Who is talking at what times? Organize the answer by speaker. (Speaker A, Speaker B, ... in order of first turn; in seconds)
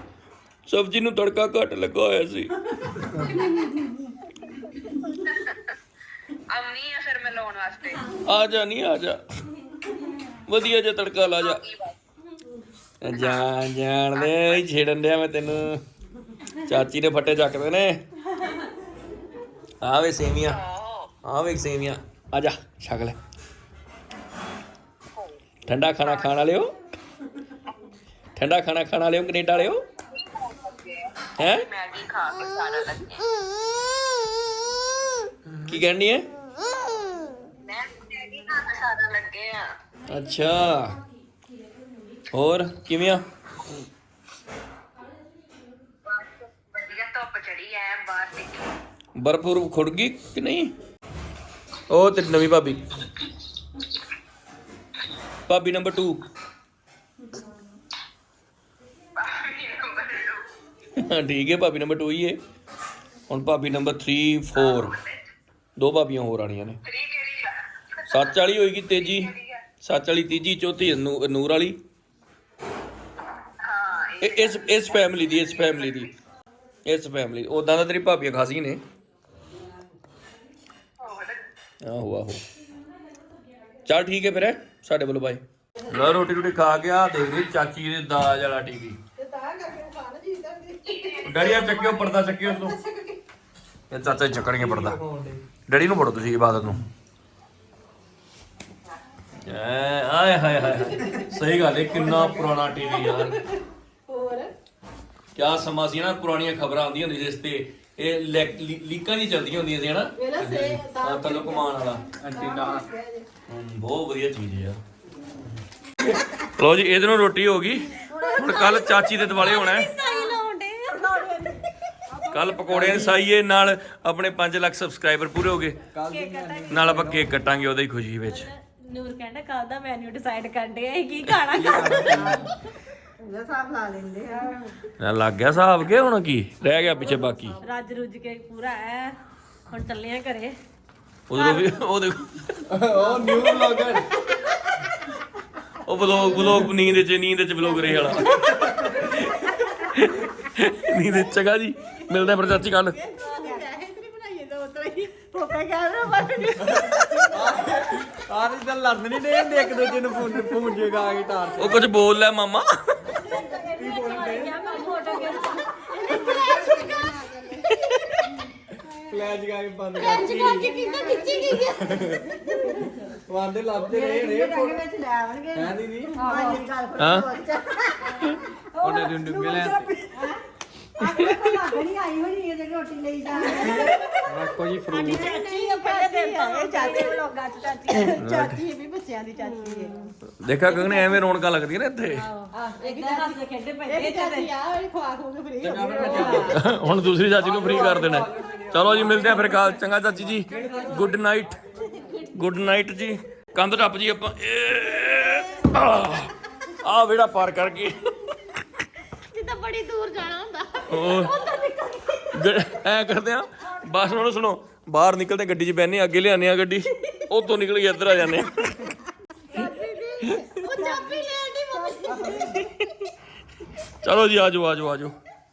Speaker A: 0.7-3.0, 8.2-9.2, 10.5-11.6, 13.0-15.8, 16.6-18.0, 19.8-20.6, 21.2-23.2, 25.7-26.8, 28.4-29.8, 31.4-31.7, 35.6-36.3, 40.1-41.0, 42.3-43.2, 49.2-50.7, 51.9-52.8, 55.5-56.2, 61.0-62.4, 63.3-65.0, 65.8-66.8, 68.1-71.8, 74.2-76.1, 76.9-78.8, 81.8-82.4, 83.8-89.0, 91.2-92.8, 93.9-95.0, 95.7-96.8, 99.4-103.4, 105.3-110.2, 110.8-112.2, 113.5-114.8, 116.0-119.9, 122.3-125.8, 126.7-128.5, 135.0-137.6, 141.3-142.5, 145.8-153.0, 161.6-163.1, 167.8-168.2, 177.0-177.3, 181.2-181.6, 188.2-188.6, 190.4-192.3, 196.4-201.6, 202.3-206.3, 206.8-208.1, 210.9-211.3, 212.3-218.9, 222.3-223.1, 223.9-225.1
Speaker B: 5.1-5.7, 6.5-8.1, 11.3-11.9, 13.1-13.5, 14.1-14.7, 20.5-21.1, 26.0-26.4, 30.4-33.3, 37.6-39.7, 46.1-48.7, 59.2-60.5, 64.6-65.2, 66.8-67.6, 68.9-69.6, 73.6-74.9, 81.0-81.4, 90.8-91.8
Speaker C: 89.2-93.2, 101.9-104.5, 110.2-113.3, 118.1-118.8, 120.0-120.3, 120.9-121.6, 133.2-134.6, 143.0-144.0, 152.1-157.8, 159.7-160.1, 163.3-163.6, 164.6-165.4, 165.9-167.7, 170.0-172.8, 173.8-180.4, 181.0-184.2, 185.0-187.2, 187.8-189.9, 190.8-191.1, 192.6-196.6, 209.3-210.9, 219.5-222.6
Speaker D: 94.6-95.4, 112.3-112.8, 122.6-123.2, 125.9-127.3, 131.5-132.5, 142.7-144.1, 148.3-148.8, 157.3-161.9, 163.8-164.7, 168.9-170.8, 171.7-172.4, 173.1-174.8, 175.5-176.4, 178.8-180.0, 183.6-185.3, 195.6-196.6, 197.4-199.8, 200.3-201.2
Speaker E: 118.1-121.2, 126.1-127.2, 128.3-132.5, 137.6-139.2, 139.7-140.6, 141.4-141.8, 153.3-153.6, 163.1-167.3, 170.0-171.7, 176.2-176.6, 179.6-179.8, 183.5-183.9, 184.9-188.2, 189.4-190.1, 192.1-194.5, 196.0-196.5, 211.0-212.2, 220.6-222.5